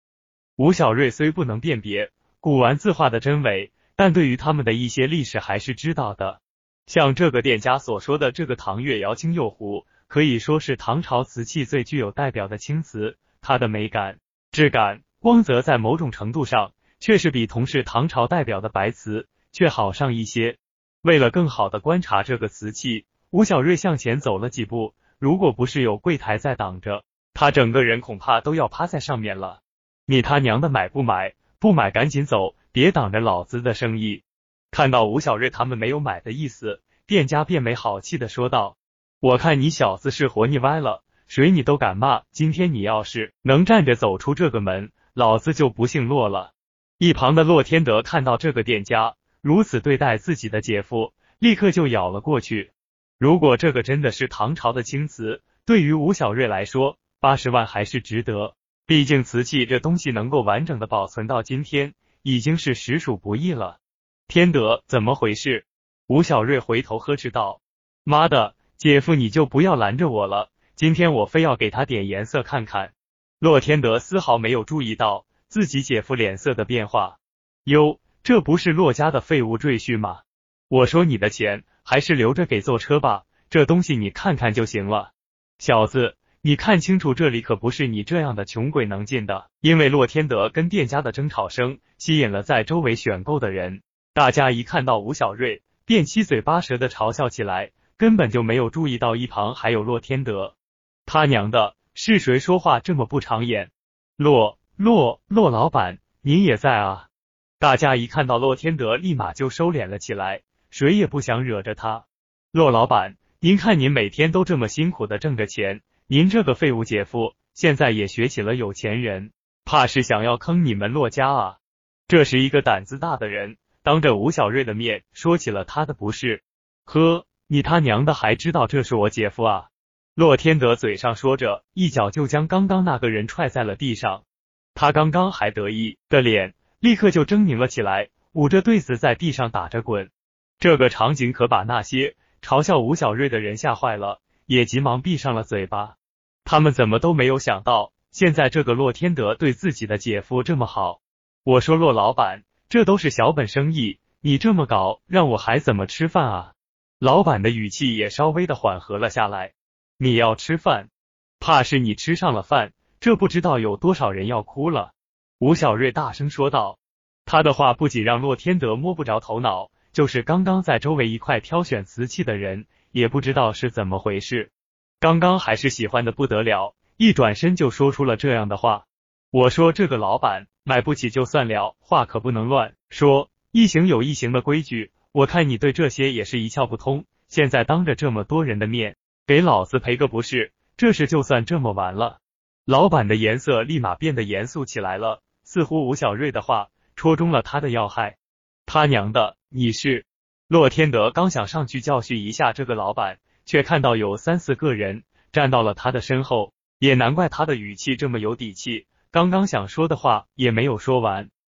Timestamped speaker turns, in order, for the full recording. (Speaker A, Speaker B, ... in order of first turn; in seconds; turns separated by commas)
Speaker A: 0.6-100.5, Speaker A: 101.0-107.1, Speaker A: 107.6-134.2, Speaker A: 134.8-211.3